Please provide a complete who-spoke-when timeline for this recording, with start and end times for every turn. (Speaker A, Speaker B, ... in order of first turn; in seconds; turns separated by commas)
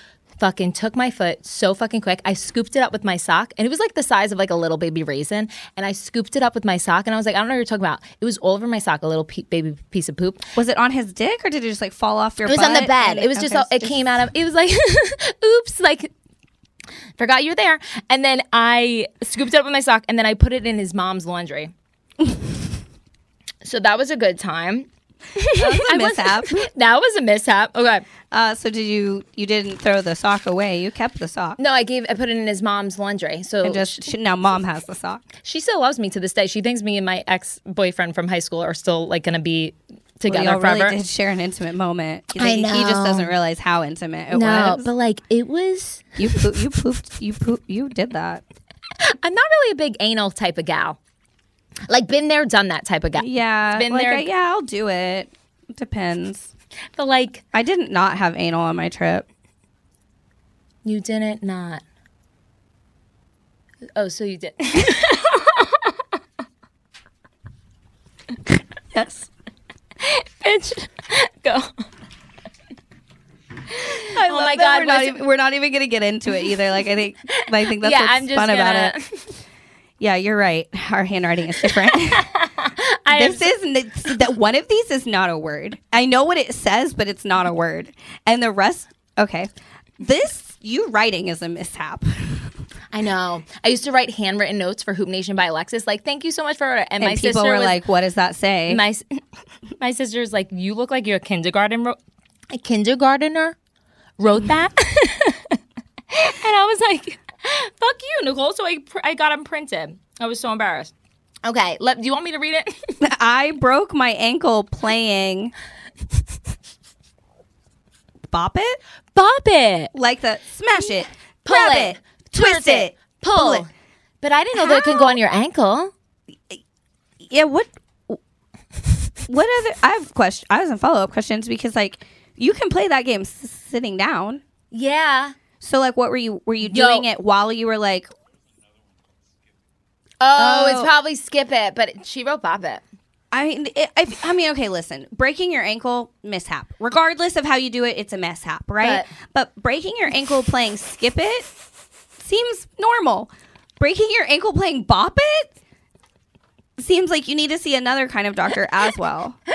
Speaker A: 0.4-10.4, Speaker B: 10.5-14.0, Speaker A: 12.4-16.1, Speaker A: 17.2-21.7, Speaker A: 23.6-28.0, Speaker B: 25.6-26.7, Speaker B: 28.3-31.6, Speaker A: 31.6-34.0, Speaker B: 33.6-35.2, Speaker A: 35.4-41.0, Speaker B: 40.3-44.9, Speaker A: 42.4-43.3, Speaker A: 44.3-46.5, Speaker B: 46.2-48.4, Speaker A: 49.0-51.0, Speaker A: 51.9-54.3, Speaker B: 53.2-56.5, Speaker A: 57.0-57.4, Speaker B: 57.5-59.2, Speaker A: 60.8-61.8, Speaker A: 64.0-65.9, Speaker B: 68.9-69.3, Speaker A: 70.0-71.7, Speaker A: 73.8-75.2, Speaker B: 74.0-78.9, Speaker A: 77.3-79.3, Speaker B: 80.0-82.3, Speaker A: 81.6-83.5, Speaker B: 83.1-92.5, Speaker A: 92.9-97.8, Speaker B: 97.0-98.8, Speaker A: 98.7-99.2, Speaker A: 99.8-102.0, Speaker A: 102.5-103.5, Speaker A: 104.2-105.6, Speaker A: 106.1-110.9, Speaker A: 111.4-113.0, Speaker B: 113.0-115.5, Speaker B: 118.3-118.8, Speaker A: 119.1-119.9, Speaker B: 119.9-123.7, Speaker A: 121.4-123.7, Speaker A: 124.2-125.9, Speaker B: 124.6-125.1, Speaker B: 127.2-128.2, Speaker B: 129.2-134.4, Speaker A: 134.7-135.3, Speaker B: 135.6-138.1, Speaker A: 136.6-137.1, Speaker A: 140.2-142.8, Speaker B: 140.4-140.9, Speaker B: 143.3-151.5, Speaker A: 148.8-149.1, Speaker B: 152.2-155.5, Speaker B: 156.8-159.4